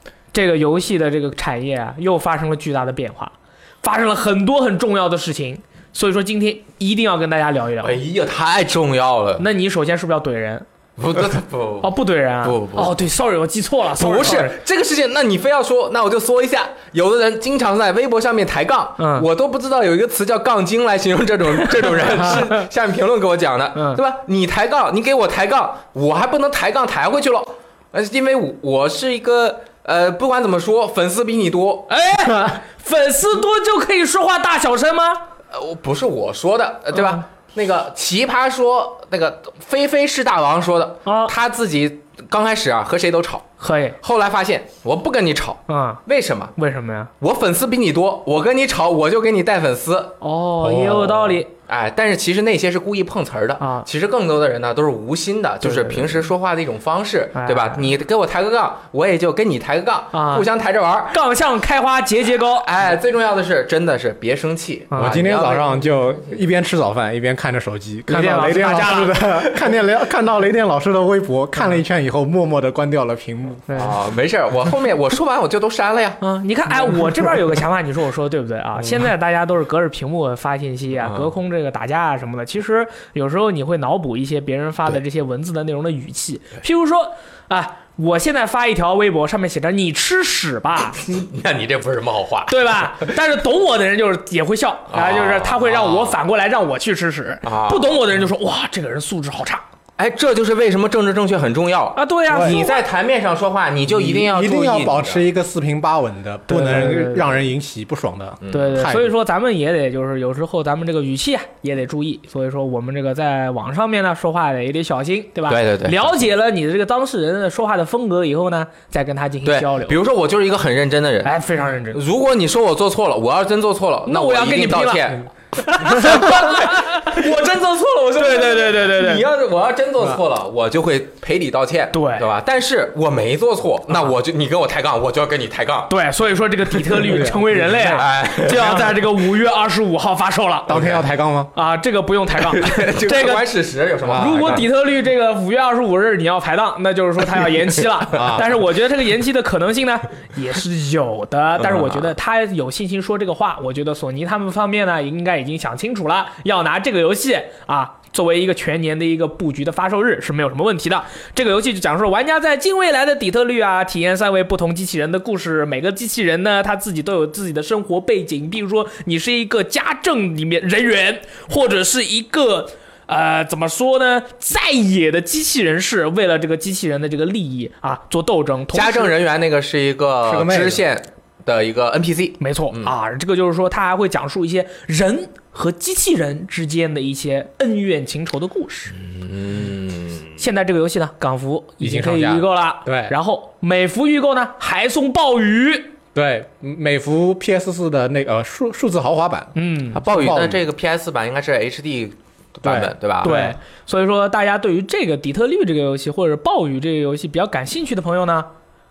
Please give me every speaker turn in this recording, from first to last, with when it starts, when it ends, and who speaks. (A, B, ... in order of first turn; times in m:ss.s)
0:00.3-0:08.0 A
0:07.8-0:09.4 B
0:09.4-0:10.7 A
0:11.0-0:13.0 B
0:11.8-0:14.6 A
0:13.9-0:31.9 B
0:19.0-0:19.3 A
0:21.6-0:22.7 A
0:23.8-0:24.0 A
0:31.9-0:35.2 A
0:35.5-0:43.5 B
0:37.0-0:37.2 A
0:41.0-0:41.3 A
0:43.6-0:44.0 A
0:44.0-0:46.6 B
0:45.7-0:46.0 A
0:46.6-0:47.1 A
0:47.2-0:50.2 B
0:50.2-0:51.5 A
0:50.6-0:51.4 C
0:51.7-1:01.2 B
0:53.6-0:53.9 A
0:55.6-0:56.2 A
0:57.4-0:57.9 A
1:00.1-1:00.5 A
1:01.1-1:02.7 A
1:02.6-1:06.4 B
1:04.9-1:05.2 A
1:05.0-1:13.8 C
1:08.1-1:09.2 A
1:09.4-1:09.7 B
1:13.7-1:13.9 A
1:13.8-1:16.2 B
1:16.2-1:31.0 A
1:20.9-1:21.3 B
1:31.0-1:33.1 B
1:32.5-1:39.6 A
1:34.9-1:36.2 B
1:37.4-1:38.0 B
1:40.0-1:45.3 B
1:42.0-1:42.8 A
1:42.3-1:42.6 C
1:43.9-1:49.1 C
1:46.5-1:47.3 A
1:48.4-1:48.9 B
1:48.5-2:00.0 A
1:55.5-1:56.2 B
1:59.4-2:01.4 B
2:01.2-2:02.0 A
2:01.9-2:15.9 B
2:04.1-2:07.2 A
2:08.2-2:09.3 A
2:11.9-2:12.3 A
2:15.9-2:20.7 A
2:16.9-2:17.2 B
2:17.0-2:18.0 C
2:17.8-2:19.3 B
2:20.7-2:21.5 C
2:20.7-2:21.0 B
2:21.5-2:23.5 A
2:22.4-2:24.7 B
2:24.0-2:24.6 C
2:24.1-2:59.1 A
2:28.1-2:28.6 C
2:31.7-2:32.0 B
2:58.7-3:02.9 B
3:00.2-3:00.8 C
3:02.4-3:09.0 A
3:09.0-3:10.3 B
3:10.4-3:15.9 A
3:11.8-3:13.1 C
3:16.2-3:19.5 C
3:19.6-3:20.0 A
3:19.9-3:23.4 B
3:20.0-3:20.6 C
3:22.6-3:23.6 C
3:23.2-3:28.5 A